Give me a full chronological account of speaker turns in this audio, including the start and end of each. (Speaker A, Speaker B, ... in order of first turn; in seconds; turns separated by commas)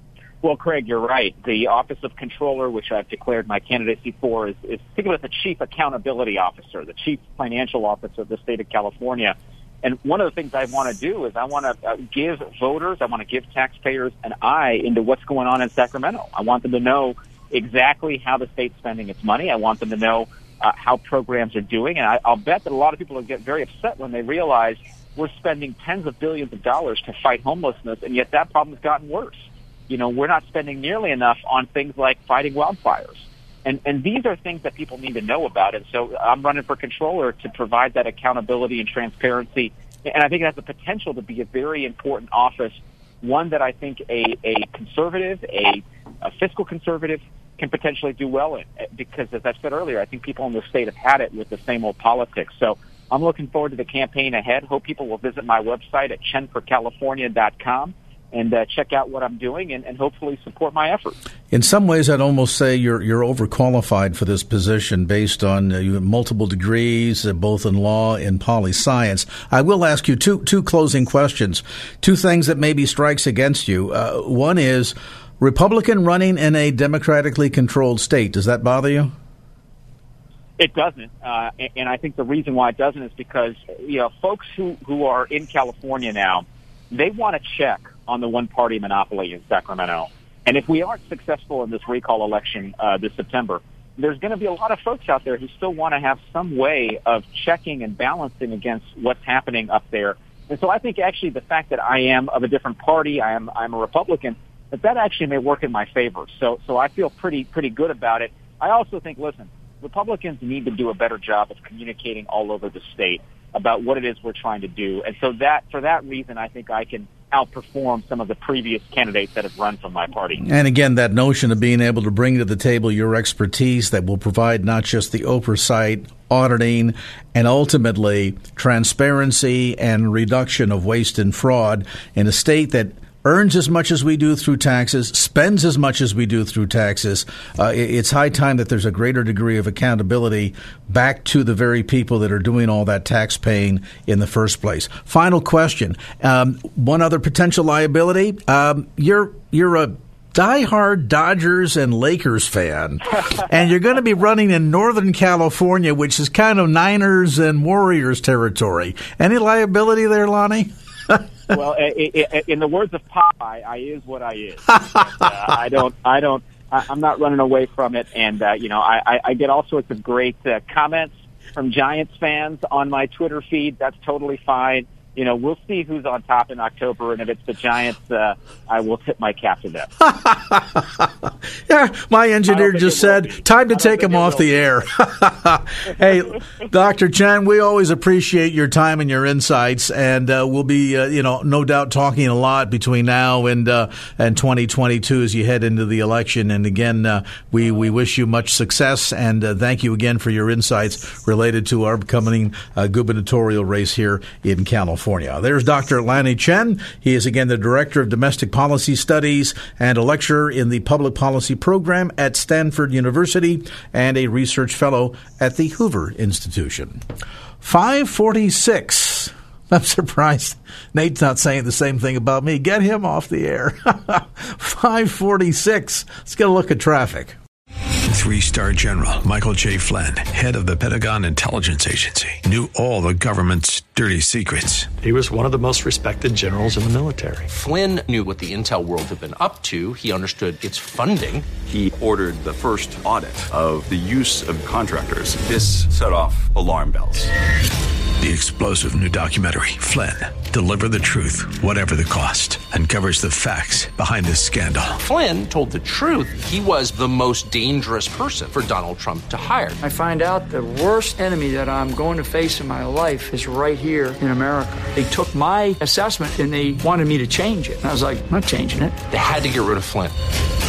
Speaker A: 0.4-61.2, Speaker B: 61.5-79.1, Speaker A: 80.6-120.4, Speaker B: 120.4-161.2, Speaker A: 161.5-179.9, Speaker B: 180.0-217.0, Speaker A: 182.5-184.8, Speaker B: 217.6-227.4, Speaker C: 228.1-234.9, Speaker D: 235.0-237.5, Speaker E: 237.5-241.5, Speaker F: 241.7-247.3, Speaker C: 248.2-255.0, Speaker E: 255.0-259.8, Speaker G: 259.8-269.0, Speaker E: 269.1-270.1